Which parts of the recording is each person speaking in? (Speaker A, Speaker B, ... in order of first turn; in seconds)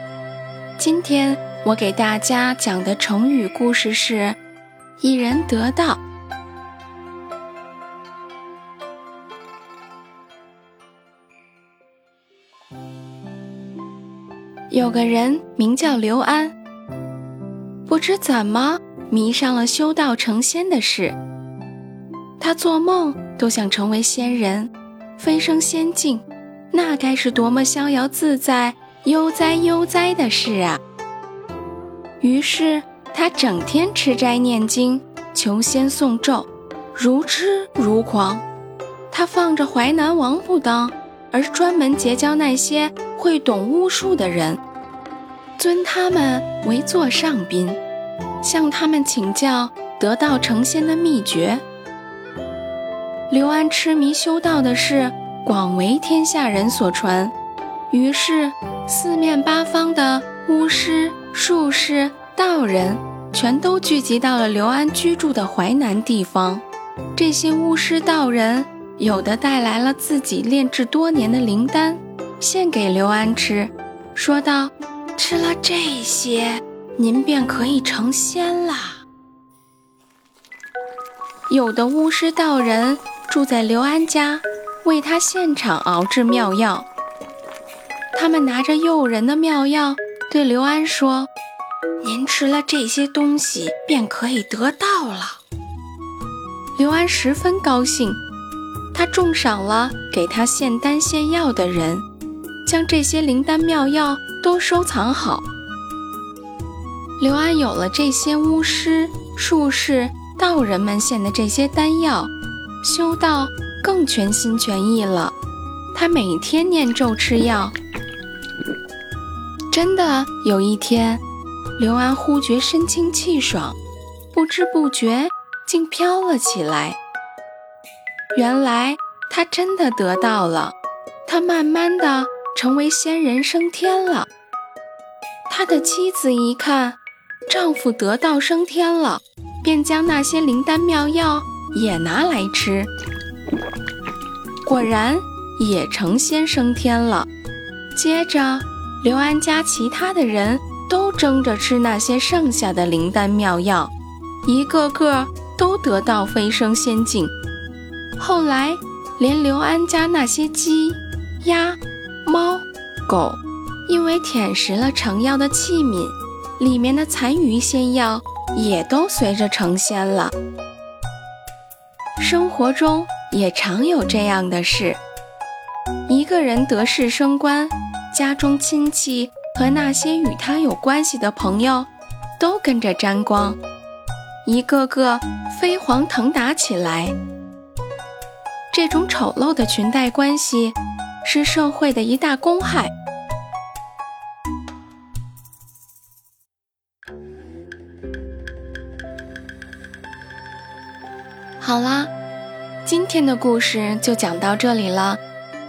Speaker A: 0.8-4.4, 5.0-6.0, 14.7-16.5, 17.9-21.2, 22.4-30.8, 32.2-38.4, 39.1-44.6, 45.6-47.8, 48.4-51.6, 53.3-57.3, 57.9-66.6, 67.1-79.0, 81.5-86.9, 88.1-91.3, 92.0-95.4, 96.8-98.2, 98.9-102.0, 102.7-105.4, 107.2-112.3, 112.8-115.3, 115.9-117.7, 119.7-121.2, 121.8-123.8, 124.3-127.0, 128.3-134.3, 135.5-142.9, 144.6-147.3, 147.9-153.9, 154.4-157.3, 158.2-170.3, 172.2-175.0, 176.1-183.6, 184.4-187.2, 188.7-192.9, 201.6-202.1, 202.8-205.2